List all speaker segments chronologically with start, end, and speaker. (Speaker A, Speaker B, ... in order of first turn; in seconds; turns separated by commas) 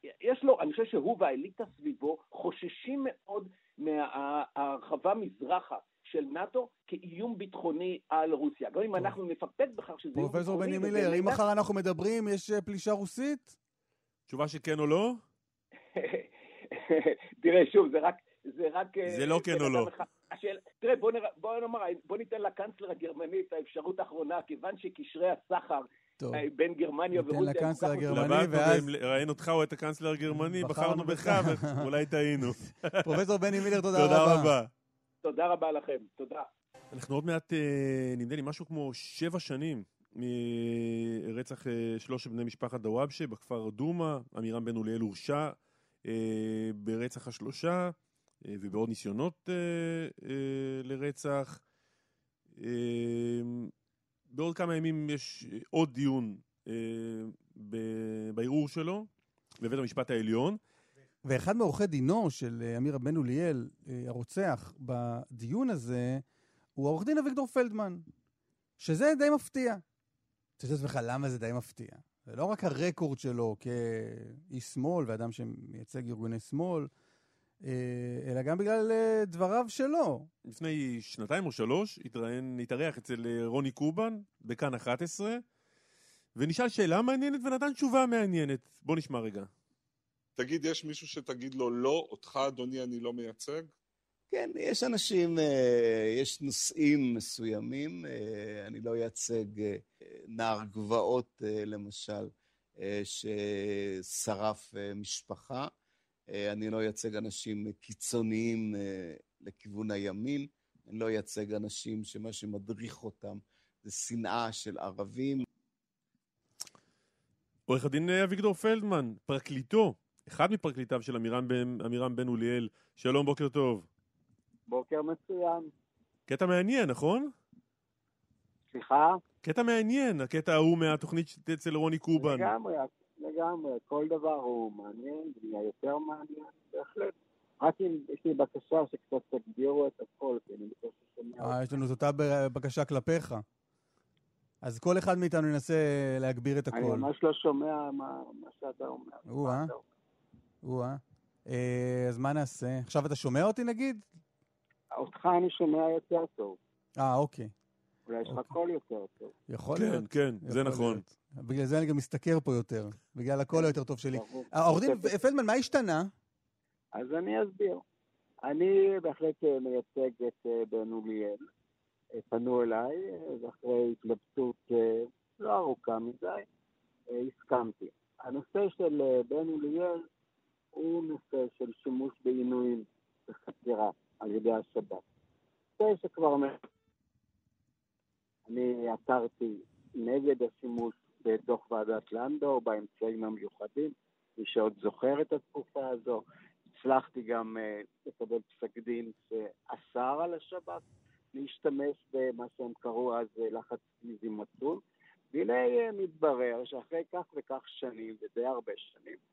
Speaker A: 0.2-11.4, Speaker B: 10.1-13.5, Speaker C: 14.3-15.2, Speaker A: 15.9-28.2, Speaker C: 19.1-19.9, Speaker B: 26.2-26.4, Speaker B: 27.1-28.9, Speaker C: 28.1-33.2, Speaker B: 30.3-32.4, Speaker B: 33.0-34.5, Speaker C: 33.8-34.7, Speaker A: 35.2-36.5, Speaker C: 36.9-51.6, Speaker C: 52.6-53.7, Speaker C: 54.3-59.1, Speaker C: 59.6-60.6, Speaker B: 61.2-66.2, Speaker B: 66.8-68.0, Speaker B: 68.8-69.8, Speaker B: 70.6-76.9, Speaker B: 77.6-80.3, Speaker C: 80.5-85.4, Speaker C: 86.4-89.5, Speaker D: 90.4-93.7, Speaker E: 94.3-102.3, Speaker E: 102.8-105.7, Speaker E: 106.3-115.5, Speaker C: 117.7-123.9, Speaker F: 124.7-125.7, Speaker C: 126.3-127.3, Speaker F: 128.7-129.2, Speaker C: 129.4-132.5, Speaker F: 132.2-141.6, Speaker B: 141.4-143.4, Speaker B: 144.6-147.1, Speaker F: 146.7-149.8, Speaker B: 149.3-149.7, Speaker B: 150.6-154.1, Speaker F: 154.9-156.6, Speaker B: 157.0-157.5, Speaker F: 158.1-159.3, Speaker B: 158.3-158.5, Speaker B: 159.5-166.1, Speaker C: 159.8-161.0, Speaker F: 163.5-165.2, Speaker F: 166.9-167.8, Speaker F: 168.4-171.5, Speaker F: 172.2-176.5, Speaker F: 177.1-180.1, Speaker F: 180.8-185.0, Speaker F: 185.8-186.6, Speaker F: 188.5-196.2, Speaker F: 196.7-200.8, Speaker F: 201.3-204.8, Speaker F: 205.3-209.2